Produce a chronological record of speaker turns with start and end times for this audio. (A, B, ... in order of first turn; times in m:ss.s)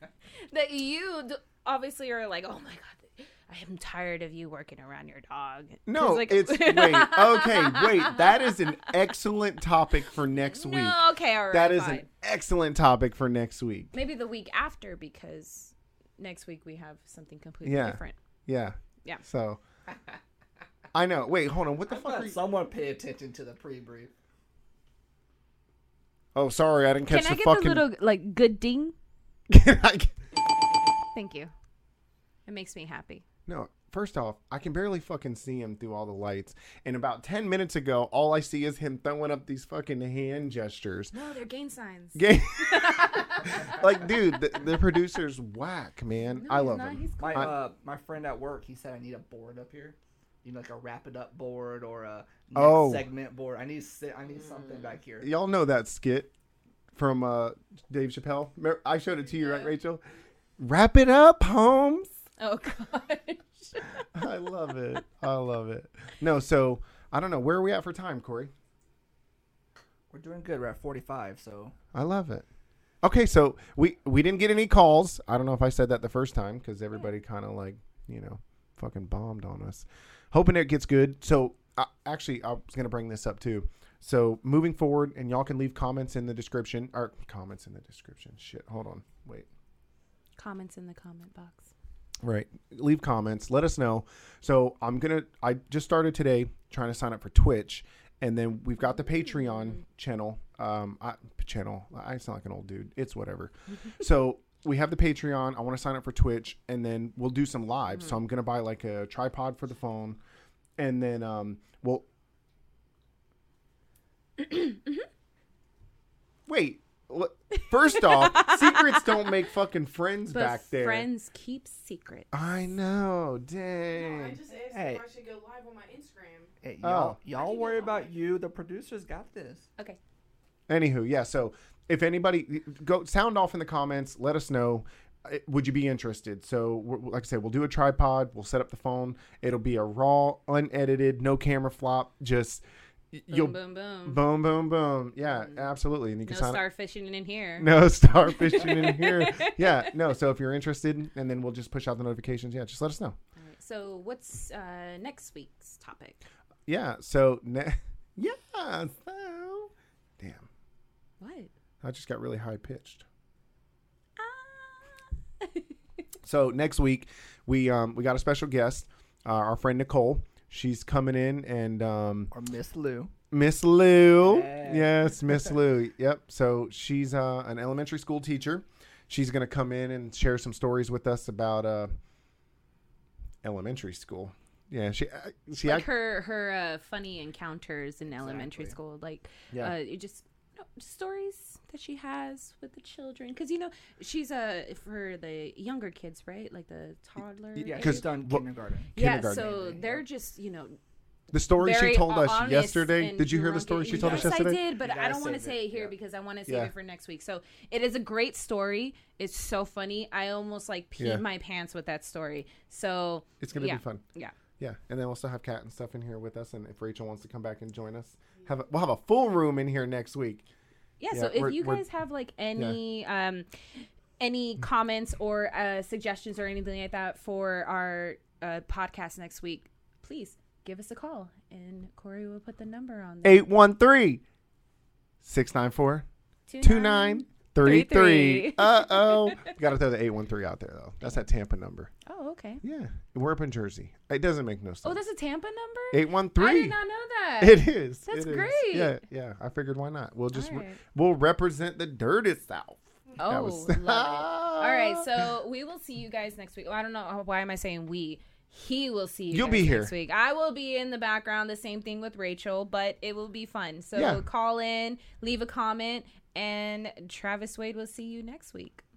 0:00.5-0:09.0 A
0:05.8-0:13.9 B
0:10.3-0:12.1 A
0:13.9-0:18.1 A
0:17.6-0:19.6 B
0:20.9-0:22.4 B
0:21.9-0:24.1 C
0:26.3-0:27.8 B
0:27.1-0:28.9 A
0:29.5-0:30.1 B
0:31.1-0:31.5 A
0:32.4-0:33.2 A
0:33.5-0:41.1 B
0:41.1-0:43.7 A
0:42.1-0:47.5 B
0:46.3-0:47.6 A
0:47.2-0:55.3 C
0:52.5-0:53.1 B
0:55.2-0:56.3 B
0:56.9-1:00.0 B
1:00.6-1:02.2 B
1:02.4-1:04.2 A
1:04.1-1:08.5 B
1:10.1-1:11.7 C
1:11.9-1:12.4 B
1:13.0-1:29.5 B
1:30.4-1:31.7 A
1:32.2-1:50.2 B
1:50.8-1:52.0 B
1:54.4-1:55.0 A
1:56.5-2:01.1 B
1:58.0-1:59.1 A
2:00.3-2:02.4 A
2:02.3-2:04.4 B
2:03.9-2:06.5 D
2:04.7-2:05.0 C
2:06.6-2:09.6 C
2:06.8-2:07.2 B
2:07.3-2:08.2 D
2:10.7-2:26.6 B
2:23.3-2:24.2 A
2:25.3-2:25.7 A
2:26.2-2:29.9 A
2:27.6-2:33.2 B
2:33.4-2:36.2 A
2:36.7-2:40.5 B
2:41.2-2:41.5 A
2:41.8-2:43.0 B
2:44.2-2:45.6 A
2:46.2-2:52.3 B
2:52.3-2:53.1 C
2:53.3-3:01.9 B
2:54.2-2:55.4 C
3:03.4-3:05.9 B
3:05.6-3:18.0 A
3:08.2-3:08.7 C
3:17.6-3:19.7 B
3:17.6-3:20.0 C
3:18.9-3:20.8 A
3:21.3-3:24.6 B
3:21.5-3:34.3 A
3:23.8-3:25.9 C
3:26.5-3:26.7 B
3:31.0-3:31.2 B
3:33.4-3:34.0 B
3:34.6-3:40.4 B
3:41.0-3:43.5 A
3:41.1-3:41.8 B
3:44.2-3:53.4 A
3:53.2-3:54.2 B
3:55.2-3:56.0 B
3:56.5-3:59.5 A
3:56.6-4:01.9 B
4:02.0-4:02.6 A
4:02.6-4:05.0 B
4:04.8-4:09.0 A
4:05.9-4:06.8 B
4:07.4-4:15.3 B
4:10.3-4:10.8 A
4:13.2-4:28.8 A
4:19.3-4:19.9 B
4:23.9-4:24.2 B